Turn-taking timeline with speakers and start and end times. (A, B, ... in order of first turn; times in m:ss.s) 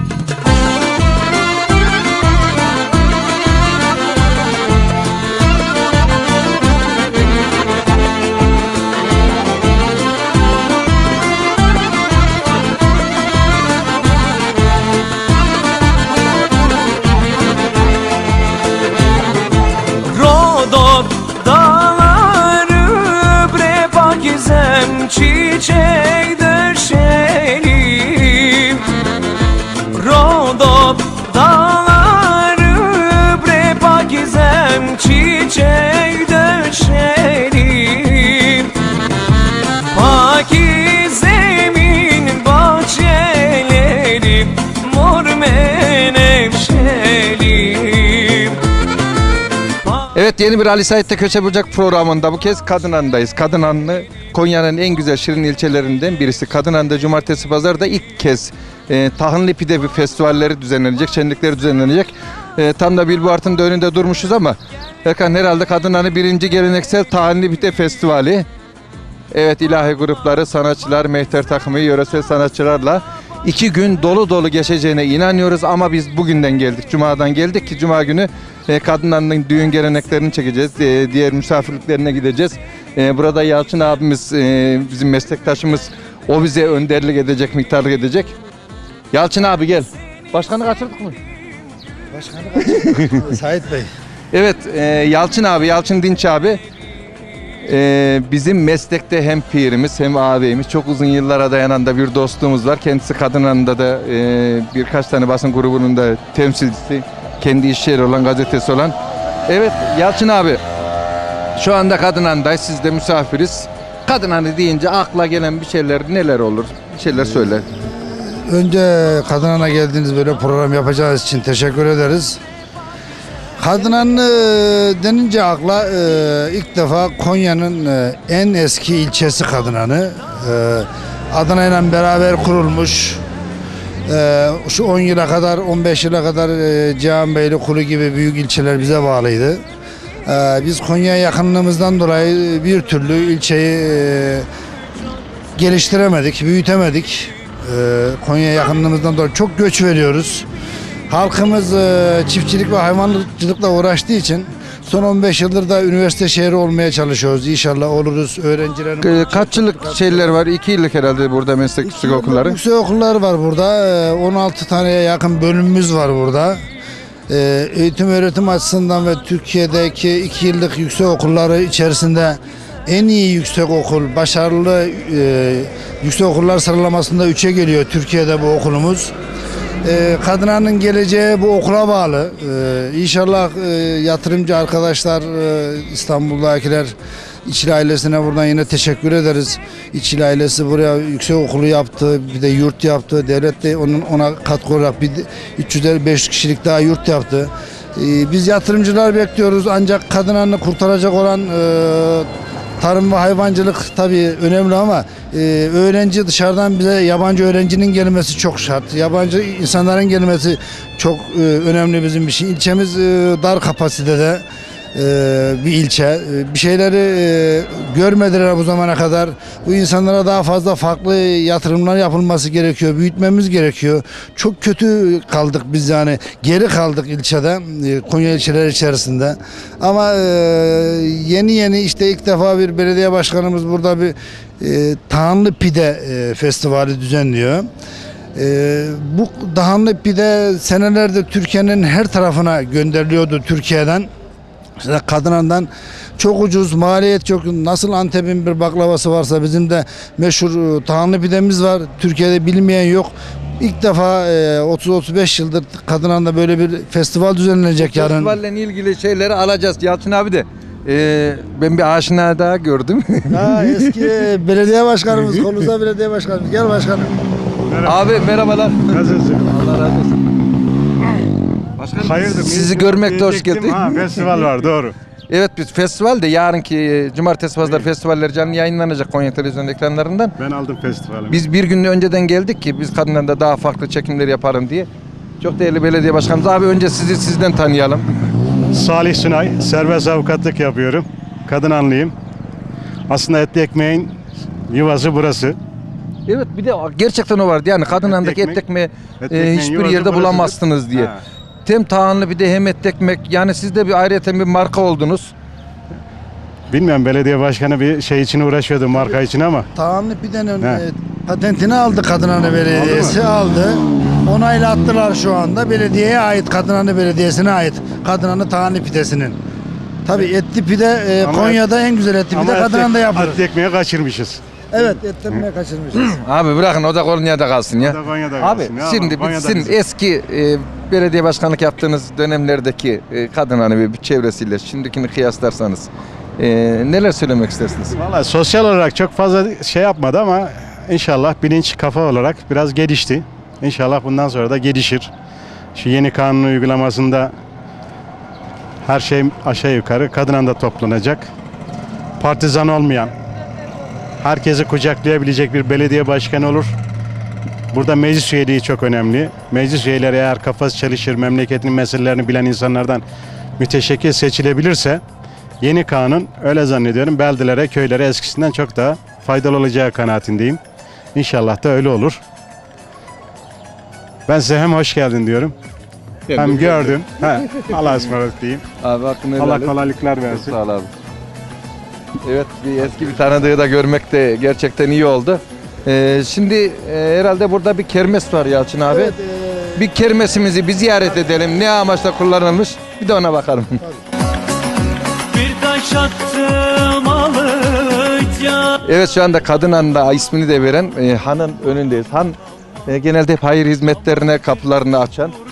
0:20.1-0:28.8 A
0:29.9-0:38.7 A
0:39.9-0:48.5 A
0:50.1-1:08.4 B
1:09.3-1:28.3 B
1:29.1-1:31.2 B
1:32.1-1:33.9 C
1:32.6-1:33.1 B
1:34.3-1:36.6 B
1:37.6-1:48.9 B
1:49.5-1:50.6 B
1:51.6-1:57.6 B
1:57.8-2:02.4 C
2:03.6-2:13.2 C
2:14.1-2:19.6 C
2:20.2-2:24.5 C
2:25.6-2:30.5 C
2:31.1-2:40.4 C
2:39.0-2:42.6 B
2:41.8-2:46.6 C
2:47.3-2:59.1 C
2:59.8-3:22.3 C
3:22.8-3:57.7 C
3:58.3-4:04.1 C
4:04.8-4:18.3 C
4:17.8-4:23.7 B
4:23.3-4:27.1 C
4:27.6-4:28.3 D
4:27.8-4:30.1 B
4:28.9-4:29.5 D
4:31.8-4:34.0 B
4:32.0-4:34.9 D
4:35.3-4:40.3 B
4:37.6-4:37.9 D
4:40.4-4:41.4 D
4:41.3-4:44.9 B
4:45.4-4:48.0 B
4:48.7-4:52.1 D
4:53.1-4:54.2 D
4:54.7-4:55.6 D
4:56.3-5:01.1 B
4:58.0-4:58.6 D
4:59.2-5:01.2 D
5:01.6-5:05.3 B
5:06.7-5:09.7 D
5:09.7-5:19.4 C
5:12.7-5:13.2 D
5:20.0-5:23.4 C
5:21.2-5:21.6 D
5:22.3-5:24.4 D
5:24.7-5:26.1 C
5:26.0-5:38.0 B
5:27.8-5:29.8 D
5:38.0-5:45.1 D
5:45.7-5:47.3 D
5:48.8-5:51.3 D
5:52.2-5:53.1 D
5:54.2-5:56.8 D
5:57.7-6:03.0 D
6:03.6-6:05.0 D
6:05.6-6:10.6 D
6:11.1-6:12.2 D
6:14.3-6:15.5 D
6:16.3-6:18.1 B
6:16.3-6:18.6 D
6:18.8-6:20.9 B
6:19.4-6:20.5 D
6:22.2-6:29.1 B
6:28.9-6:29.8 C
6:29.8-6:33.8 B
6:35.4-6:38.5 A
6:38.8-6:45.3 B